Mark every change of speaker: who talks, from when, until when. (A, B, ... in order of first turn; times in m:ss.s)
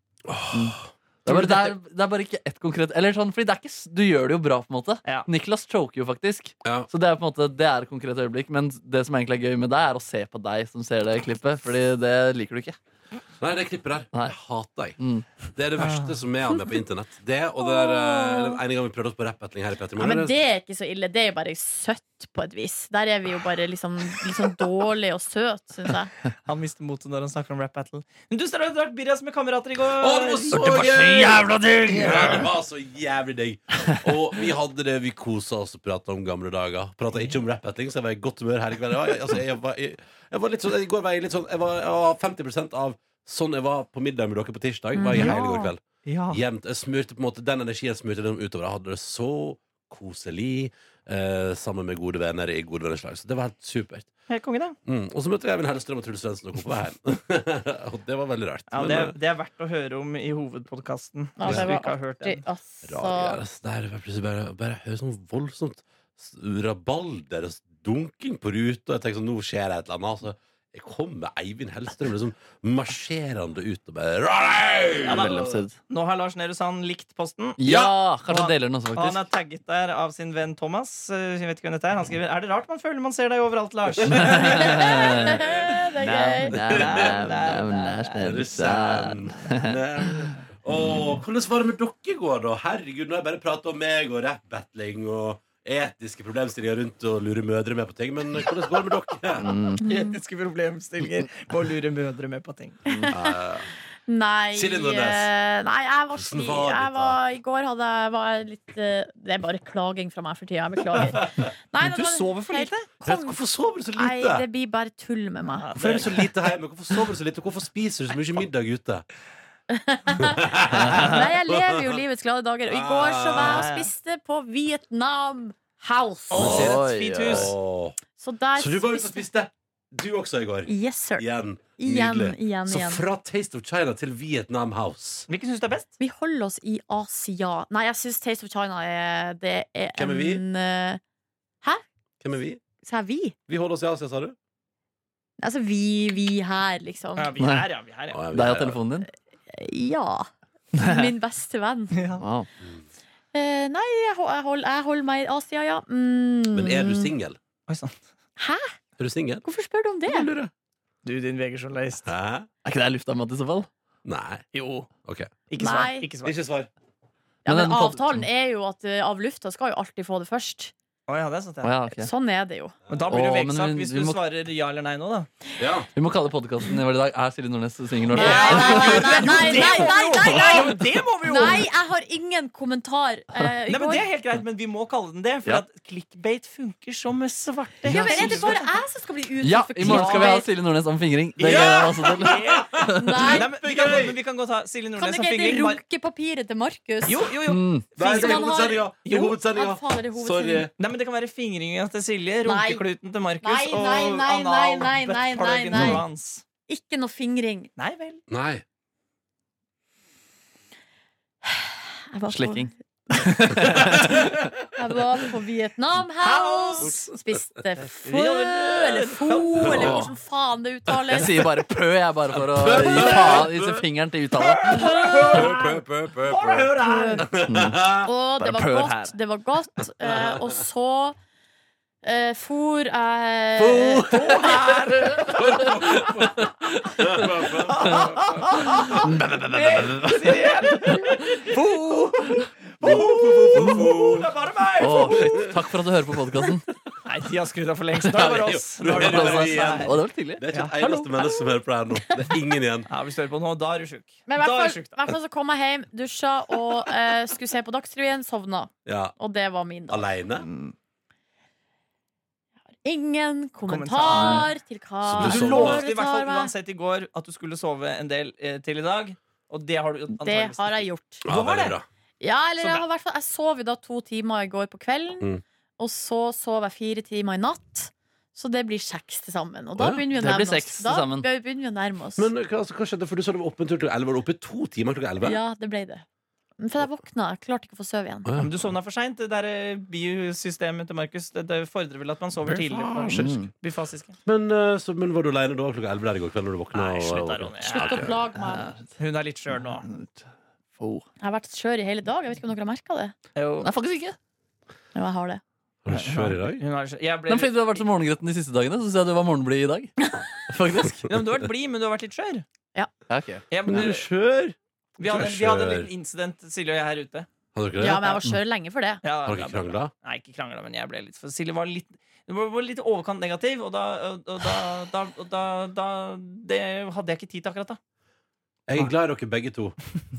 0:00.3-0:00.9 A
0:00.5-0:12.8 B
0:01.2-0:01.8 C
0:13.4-0:15.0 A
0:15.0-0:15.3 B
0:15.6-0:20.4 A
0:15.8-0:16.2 C
0:17.6-0:18.6 D
0:20.0-0:26.1 D
0:26.4-0:32.4 C
0:30.0-0:54.1 A
0:30.5-0:32.4 B
0:45.0-0:45.7 D
0:45.2-0:45.5 C
0:46.0-0:46.4 C
0:54.3-0:54.8 C
0:54.9-0:59.2 A
0:58.7-1:02.4 C
1:01.4-1:03.4 D
1:01.5-1:01.7 A
1:02.8-1:15.6 A
1:15.0-1:25.4 C
1:15.1-1:15.8 B
1:17.6-1:19.3 B
1:17.7-1:17.9 A
1:24.0-1:25.4 B
1:24.1-1:24.5 A
1:24.6-1:26.6 D
1:25.4-1:25.7 A
1:26.0-1:29.8 B
1:26.6-1:28.4 C
1:26.7-1:27.2 A
1:28.2-1:39.6 A
1:39.4-1:39.8 B
1:39.8-1:40.2 D
1:39.8-1:42.8 C
1:42.9-1:43.4 D
1:43.1-1:43.7 A
1:44.1-1:53.4 D
1:44.5-1:45.3 A
1:46.2-1:47.2 A
1:51.8-1:52.9 C
1:53.0-1:54.4 A
1:54.0-1:55.7 D
1:55.6-1:56.4 C
1:55.8-1:59.0 A
1:59.7-2:06.5 D
2:00.2-2:01.9 A
2:00.7-2:01.2 B
2:02.7-2:03.7 A
2:03.4-2:03.9 C
2:06.3-2:07.5 C
2:06.4-2:08.0 A
2:06.4-2:07.5 B
2:08.2-2:09.3 D
2:08.6-2:15.3 A
2:10.7-2:11.3 D
2:11.8-2:13.0 D
2:15.3-2:15.9 C
2:16.0-2:21.0 D
2:20.0-2:20.4 A
2:22.2-2:22.6 A
2:22.8-2:23.4 D
2:23.5-2:24.4 A
2:25.4-2:27.3 D
2:27.2-2:28.2 C
2:27.4-2:27.7 B
2:28.1-2:28.8 A
2:28.3-2:29.1 B
2:29.5-2:32.0 D
2:30.8-2:31.1 B
2:31.9-2:32.2 C
2:32.2-2:32.5 B
2:33.3-2:37.1 D
2:36.5-2:37.4 A
2:37.7-2:38.0 C
2:38.4-2:38.8 D
2:39.0-2:39.4 A
2:39.4-2:40.3 D
2:40.1-2:40.5 A
2:41.0-2:42.1 C
2:42.1-2:42.5 A
2:42.6-2:43.7 B
2:44.0-2:44.4 A
2:44.5-2:44.9 C
2:45.1-2:45.3 A
2:45.5-2:46.4 C
2:45.6-2:46.1 D
2:46.2-2:46.7 A
2:47.4-2:48.2 B
2:47.5-2:50.7 D
2:51.1-2:51.8 C
2:51.6-2:52.1 B
2:51.9-2:52.8 D
2:52.9-2:53.2 A
2:52.9-2:55.3 C
2:53.1-2:54.2 B
2:55.6-2:55.9 A
2:56.0-3:00.7 B
2:58.1-3:01.7 C
2:58.1-3:04.1 D
3:03.7-3:08.8 C
3:07.8-3:10.5 D
3:07.9-3:08.6 B
3:09.4-3:13.4 B
3:09.8-3:10.4 C
3:11.4-3:15.8 C
3:11.4-3:14.2 A
3:13.0-3:13.5 D
3:15.0-3:17.3 D
3:17.1-3:19.4 C
3:17.5-3:17.9 B
3:18.0-3:20.7 A
3:18.0-3:20.7 D
3:20.8-3:26.4 C
3:22.4-3:22.8 D
3:23.4-3:26.0 D
3:25.7-3:26.0 B
3:26.7-3:27.7 D
3:27.8-3:28.2 C
3:28.3-3:28.6 A
3:31.4-3:32.7 D
3:32.3-3:34.5 B
3:33.7-3:34.4 A
3:33.7-3:34.1 D
3:34.7-3:41.4 D
3:36.2-3:37.0 C
3:37.8-3:39.9 C
3:39.6-3:40.0 A
3:39.6-3:40.1 B
3:41.1-3:44.9 B
3:42.4-3:43.8 A
3:44.4-3:47.3 C
3:44.7-3:45.4 D
3:44.8-3:48.1 A
3:46.8-3:47.3 D
3:47.5-3:49.1 B
3:48.0-3:51.2 D
3:50.0-3:50.6 A
3:52.0-3:54.4 D
3:53.6-3:55.8 B
3:54.1-3:55.7 C
3:55.3-3:59.0 A
3:56.4-3:57.3 B
3:57.5-4:05.5 C
3:57.8-4:02.5 B
4:02.8-4:04.3 A
4:03.6-4:03.9 B
4:04.8-4:06.6 B
4:05.0-4:05.6 A
4:07.0-4:10.0 C
4:08.0-4:10.5 B
4:08.2-4:12.9 A
4:10.5-4:11.0 C
4:11.9-4:12.3 D
4:12.9-4:14.9 C
4:14.3-4:20.1 D
4:18.9-4:19.2 A
4:19.9-4:20.5 A
4:22.8-4:26.5 D
4:23.7-4:24.5 C
4:24.1-4:24.5 B
4:25.0-4:25.9 A
4:25.2-4:31.8 C
4:30.2-4:31.2 D
4:31.2-4:31.8 A
4:32.2-4:42.3 D
4:39.8-4:40.0 A
4:40.1-4:41.3 B
4:42.2-4:45.4 A
4:45.2-4:46.0 D
4:46.6-4:48.3 D
4:48.2-4:48.7 A
4:48.4-4:54.2 C
4:52.4-4:53.5 A
4:53.1-4:53.5 B
4:54.3-4:58.2 A
4:56.7-4:58.1 C
4:57.6-4:58.7 D
4:58.4-4:58.8 B
4:59.0-4:59.9 C
4:59.8-5:00.2 B
5:00.8-5:01.1 B
5:01.2-5:03.1 D
5:03.4-5:03.7 C
5:03.6-5:04.2 B
5:05.0-5:05.4 D
5:05.8-5:06.6 A
5:05.9-5:07.8 C
5:07.3-5:11.2 B
5:11.1-5:12.4 C
5:13.1-5:13.4 B
5:13.5-5:14.1 C
5:13.7-5:15.9 A
5:15.0-5:17.3 C
5:17.6-5:18.2 A
5:17.8-5:19.0 D
5:19.0-5:27.8 C
5:19.3-5:19.9 A
5:28.7-5:29.8 A